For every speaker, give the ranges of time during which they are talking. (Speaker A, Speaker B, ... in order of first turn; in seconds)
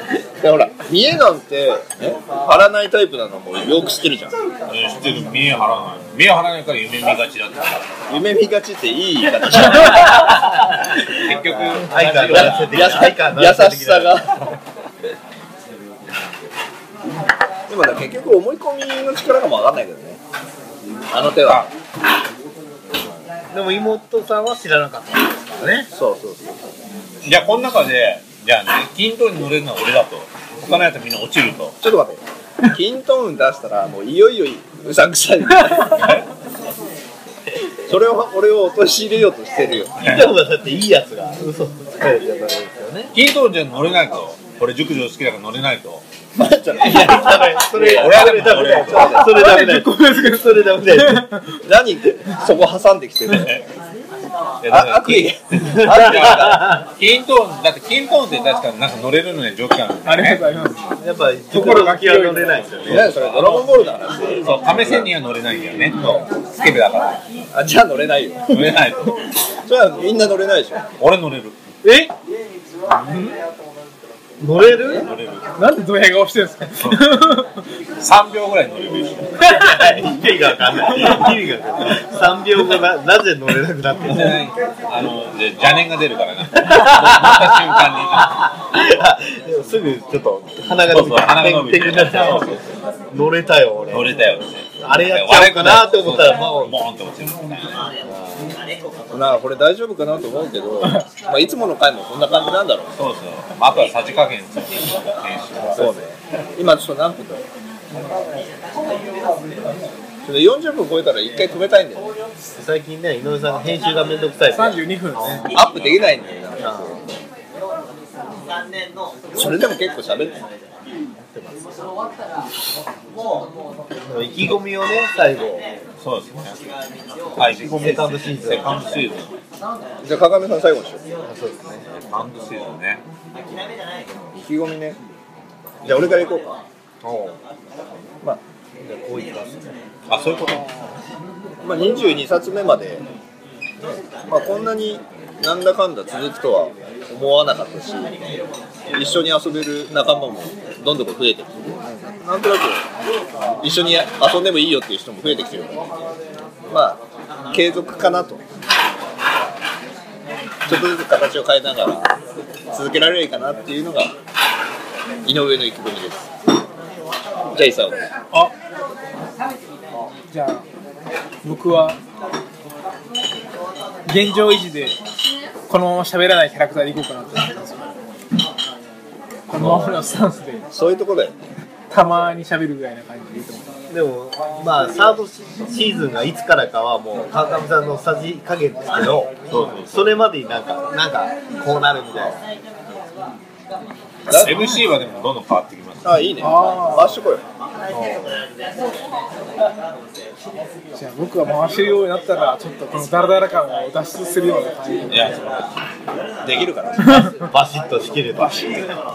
Speaker A: 0.4-4.4, 8.1-10.3, 11.9-14.5, 17.7-20.2, 21.1-21.7, 25.9-26.6, 31.8-36.1, 37.9-39.9, 46.4-49.4, 51.6-53.6, 54.7-56.7, 62.9-65.1, 67.5-68.7, 69.6-70.8, 99.1-102.9, 105.7-107.4, 110.2-112.1, 115.5-117.1, 119.3-120.4, 130.0-131.0, 134.3-135.0, 135.8-136.6, 141.6-143.1, 144.3-148.2, 148.9-152.9, 153.6-155.9, 156.7-158.4, 160.7-162.1, 162.7-164.1, 165.2-166.3, 167.5-168.0, 179.5-179.9, 180.7-181.4, 194.3-194.6, 196.0-197.4, 206.4-207.1
Speaker B: 4.7-7.9, 10.5-12.8, 21.4-21.7, 27.2-31.8, 40.0-40.3, 43.1-46.0, 47.8-49.1, 53.4-53.6, 54.6-60.6, 62.7-63.7, 64.4-67.2, 68.5-69.2, 71.0-71.6, 74.6-75.5, 76.8-77.2, 78.0-79.7, 84.1-88.5, 90.7-92.7, 93.9-98.5, 103.0-106.0, 115.4-116.2, 126.0-126.6, 127.3-129.3, 132.1-133.0, 140.1-140.8, 189.5-190.2, 194.3-196.3, 205.1-205.8
Speaker C: 11.8-14.2, 23.5-25.9, 40.0-43.1, 46.7-51.3, 55.7-56.8, 61.0-63.1, 66.0-66.3, 71.8-72.1, 74.4-75.1, 79.4-84.5, 86.6-92.6, 93.1-94.2, 94.8-96.7, 112.6-114.8, 116.6-117.0, 121.2-121.7, 124.0-125.7, 127.6-129.1, 131.3-131.9, 137.0-137.4, 138.8-139.8, 183.9-192.4, 207.4-208.9
Speaker D: 49.1-51.6, 60.0-61.0, 61.5-62.6, 75.6-77.6, 114.5-115.6, 170.3-170.7, 171.4-172.0, 174.1-175.0, 175.7-177.9, 179.5-180.7, 181.9-183.7, 194.5-194.8, 196.4-197.2, 197.9-198.4, 200.9-205.4, 207.0-207.4